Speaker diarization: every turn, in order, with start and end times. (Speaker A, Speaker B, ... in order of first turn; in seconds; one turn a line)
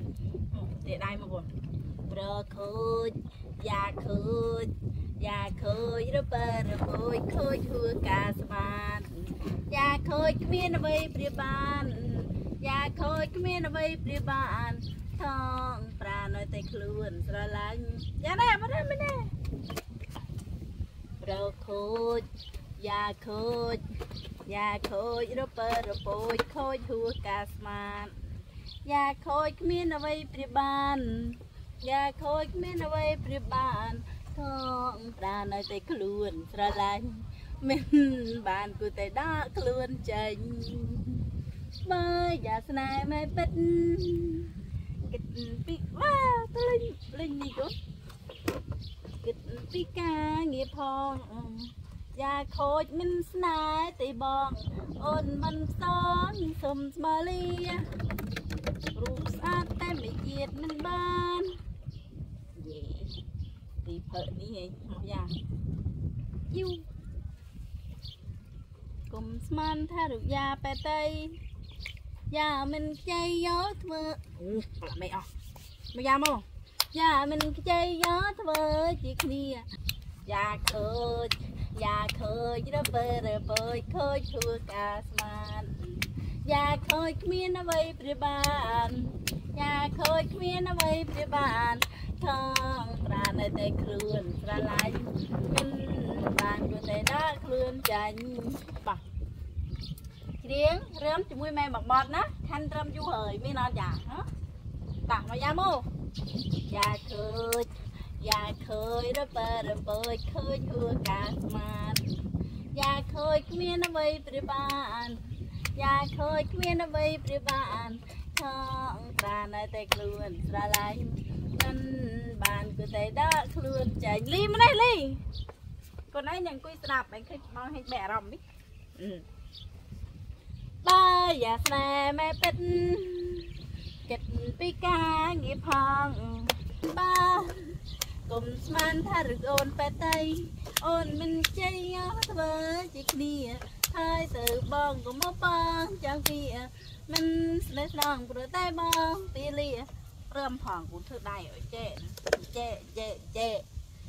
Speaker A: 0.5-1.5
Speaker A: 2.0-19.3
Speaker A: 21.2-28.2
Speaker A: 28.8-41.2
Speaker A: 41.8-44.5
Speaker A: 45.1-47.7
Speaker A: 49.2-57.9
Speaker A: 58.9-61.5
Speaker A: 62.5-63.1
Speaker A: 63.8-65.3
Speaker A: 66.5-66.8
Speaker A: 69.1-71.4
Speaker A: 72.3-75.3
Speaker A: 75.9-79.7
Speaker A: 80.2-99.0
Speaker A: 100.4-104.3
Speaker A: 105.1-105.9
Speaker A: 106.6-112.1
Speaker A: 112.7-125.2
Speaker A: 126.1-128.4
Speaker A: 129.0-129.2
Speaker A: 130.8-153.6